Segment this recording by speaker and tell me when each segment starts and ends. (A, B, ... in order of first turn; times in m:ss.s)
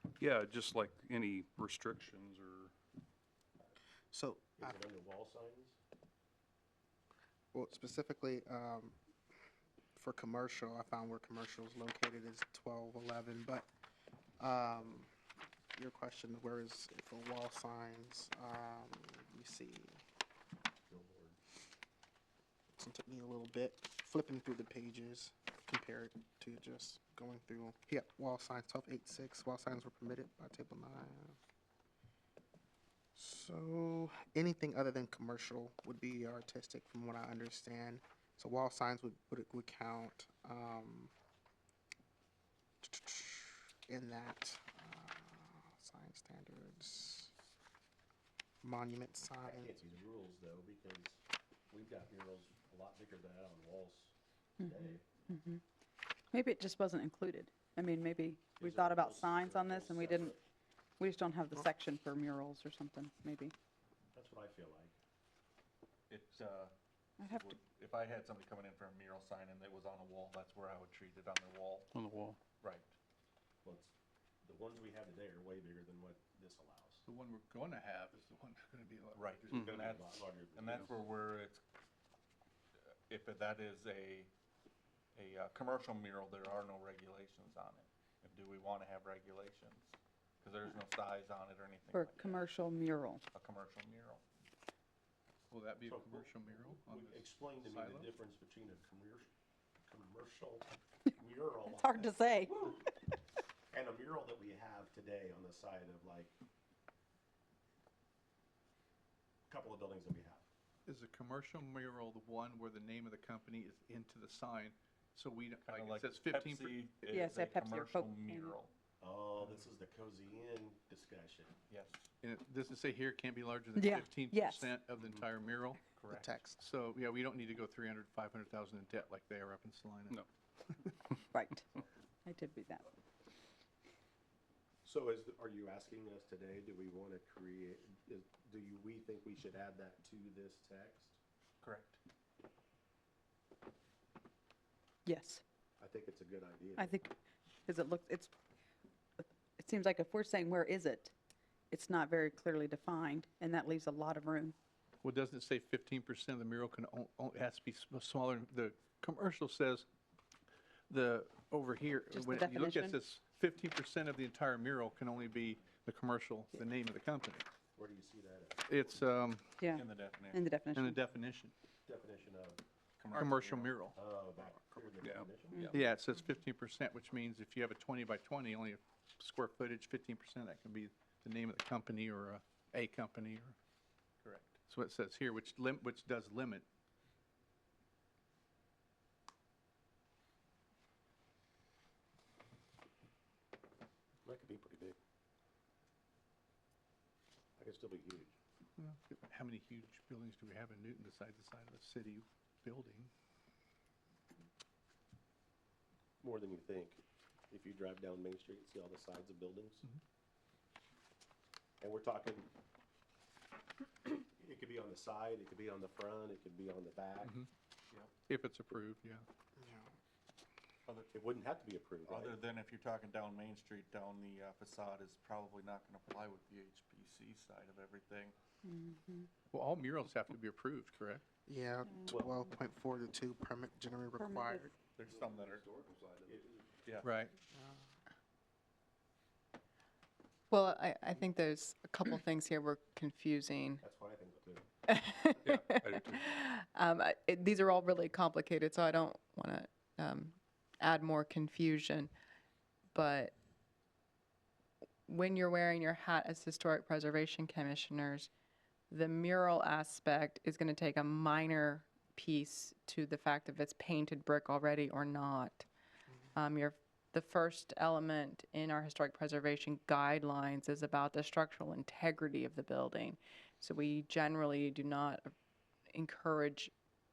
0:00.2-0:02.5 A
0:04.1-0:04.8 B
0:04.6-0:05.8 C
0:07.5-0:09.0 B
0:10.0-0:13.7 B
0:14.4-0:15.1 B
0:15.7-0:20.0 B
0:20.9-0:21.4 C
0:22.8-0:31.4 B
0:33.2-0:41.1 B
0:42.8-0:47.3 B
0:48.6-0:49.8 B
0:49.4-0:55.3 C
0:54.6-0:55.6 D
0:56.3-1:00.4 D
0:58.5-1:00.4 C
1:01.0-1:03.5 D
1:04.1-1:05.0 C
1:06.1-1:11.9 E
1:07.2-1:07.5 D
1:12.6-1:12.9 E
1:13.6-1:17.0 C
1:17.1-1:19.7 F
1:19.1-1:21.6 E
1:19.5-1:21.0 C
1:22.9-1:24.3 E
1:25.1-1:32.5 E
1:31.9-1:33.2 D
1:33.3-1:34.2 E
1:35.5-1:38.1 F
1:35.8-1:39.3 C
1:39.9-1:42.8 C
1:41.7-1:42.7 D
1:43.7-1:46.3 C
1:49.5-1:50.4 C
1:50.9-1:57.2 F
1:55.6-1:58.7 E
1:57.1-1:58.6 D
1:59.0-2:01.6 C
2:01.7-2:02.1 E
2:02.2-2:05.8 F
2:03.8-2:04.8 D
2:06.0-2:06.4 E
2:06.1-2:06.6 B
2:06.6-2:11.0 F
2:11.3-2:11.6 D
2:12.2-2:12.9 D
2:14.8-2:21.2 C
2:21.6-2:22.0 E
2:25.1-2:25.4 D
2:25.8-2:26.9 C
2:26.8-2:27.1 D
2:27.7-2:28.3 D
2:29.2-2:31.1 D
2:31.7-2:34.6 D
2:35.0-2:39.8 F
2:40.9-2:47.5 F
2:42.1-2:43.0 D
2:47.8-2:48.8 C
2:48.7-2:49.5 F
2:49.6-2:51.0 D
2:49.7-2:50.4 E
2:50.7-2:51.5 F
2:51.8-2:52.6 C
2:53.0-2:53.9 E
2:53.1-2:54.0 F
2:53.9-2:55.7 C
2:54.7-2:55.8 E
2:55.7-3:03.6 F
3:04.2-3:04.6 E
3:04.7-3:06.6 F
3:14.2-3:15.0 C
3:17.6-3:18.3 C
3:18.8-3:23.1 F
3:26.2-3:29.8 C
3:31.8-3:32.5 C
3:34.1-3:37.3 C
3:37.2-3:37.5 F
3:38.3-3:39.2 F
3:39.6-3:39.9 B
3:40.8-3:41.1 E
3:41.1-3:42.4 C
3:42.1-3:48.4 E
3:48.6-3:49.3 D
3:49.5-3:51.2 F
3:51.5-3:54.7 B
3:54.2-3:54.7 D
3:55.0-3:55.7 E
3:55.5-3:56.4 A
3:56.2-3:56.6 C
3:56.8-3:57.1 E
3:57.0-3:57.3 F
3:57.6-3:57.8 B
4:00.5-4:03.8 G
4:03.8-4:04.7 C
4:04.8-4:12.1 G
4:12.9-4:13.3 G
4:15.1-4:18.3 G
4:18.9-4:25.7 G
4:26.4-4:35.3 G
4:35.9-4:36.7 G